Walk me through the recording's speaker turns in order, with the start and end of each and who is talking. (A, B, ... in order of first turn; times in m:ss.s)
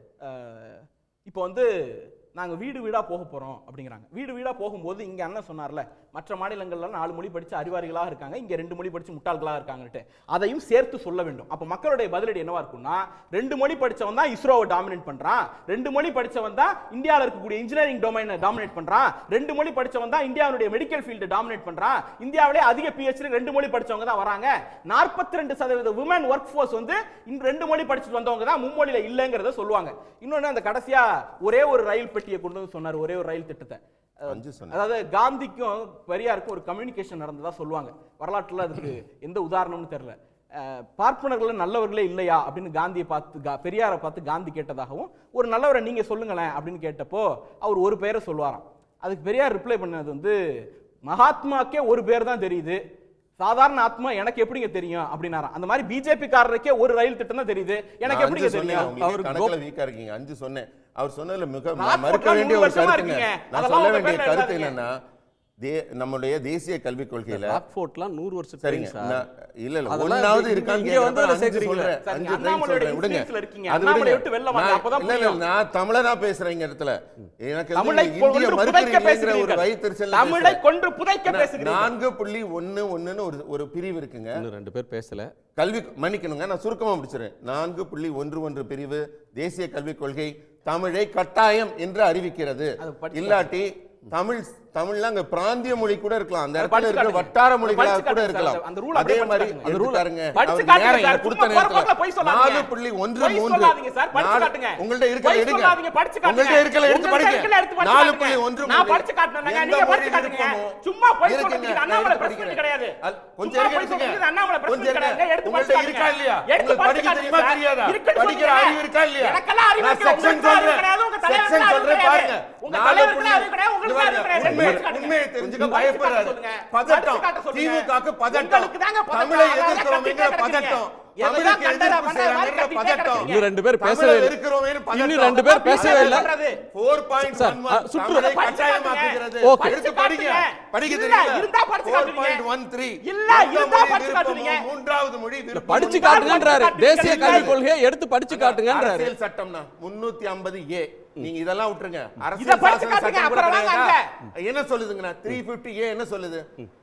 0:00.2-0:50.4 A
0:34.3-0:34.8 B
0:51.1-0:52.8 A
0:53.4-0:58.9 A
0:58.0-1:04.9 B
0:58.8-0:59.5 C
1:01.8-1:04.8 A
1:05.6-1:07.6 B
1:07.3-1:09.2 C
1:08.6-1:20.6 B
1:09.9-1:12.0 C
1:12.0-1:15.4 A
1:17.8-1:21.9 A
1:21.2-1:24.4 B
1:24.4-1:25.3 C
1:25.6-2:27.6 B
1:32.8-1:33.5 A
1:36.6-1:39.7 A
1:39.6-1:40.0 C
1:40.4-2:13.5 A
2:04.4-2:04.8 C
2:13.1-2:14.3 C
2:14.9-2:16.3 C
2:15.4-2:16.6 A
2:17.2-2:18.5 C
2:18.1-2:22.4 A
2:19.4-2:19.8 C
2:23.0-2:24.6 A
2:25.5-2:29.1 C
2:25.8-2:27.5 A
2:28.3-2:36.4 B
2:32.4-2:34.1 A